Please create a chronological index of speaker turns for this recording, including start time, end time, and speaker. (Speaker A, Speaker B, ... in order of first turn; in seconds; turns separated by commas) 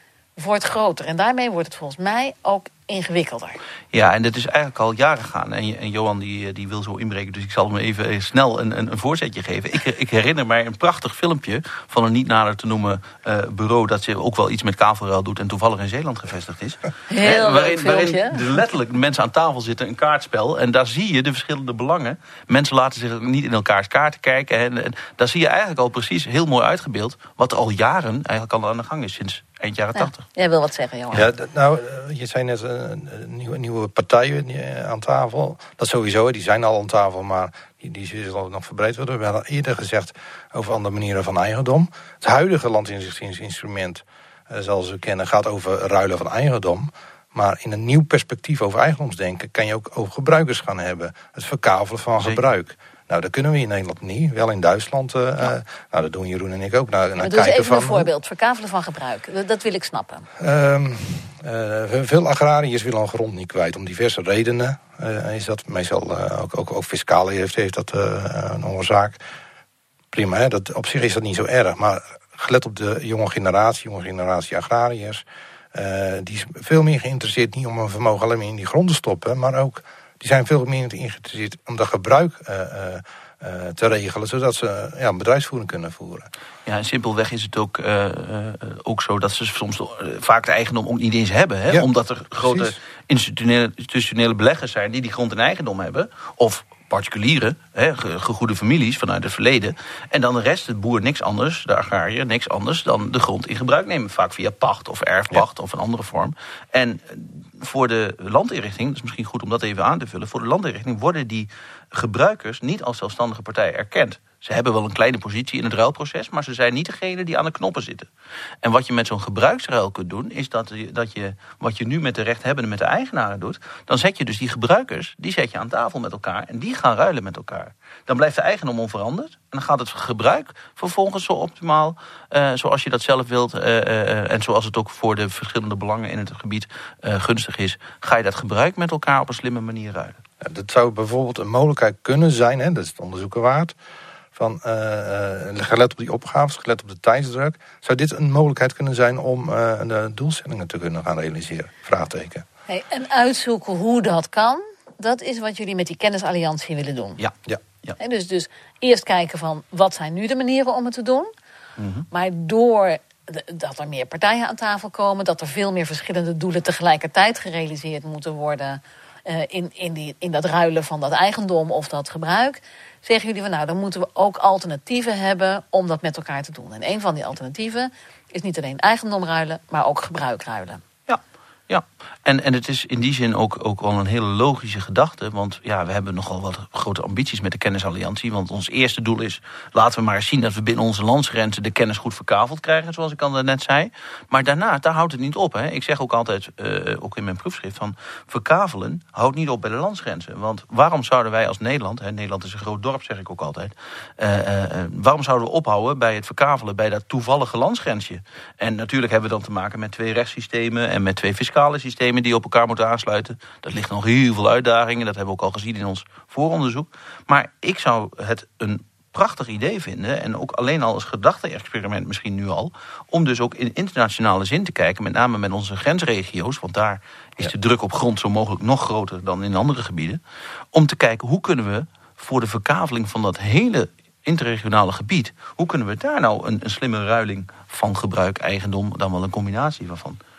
Speaker A: 0.3-3.6, Speaker B: 3.9-30.2, Speaker A: 17.1-18.6, Speaker A: 29.9-31.2, Speaker C: 31.1-58.1, Speaker B: 52.2-52.5, Speaker A: 57.2-60.3, Speaker C: 60.4-69.2, Speaker C: 70.1-86.3, Speaker B: 86.7-118.1, Speaker C: 92.4-92.7, Speaker B: 118.6-140.2, Speaker C: 140.4-143.7, Speaker C: 144.3-152.4, Speaker A: 152.7-157.2, Speaker B: 157.2-158.0, Speaker A: 158.0-161.3, Speaker B: 161.8-162.1, Speaker A: 162.1-180.8, Speaker B: 181.1-230.2, Speaker B: 230.7-240.2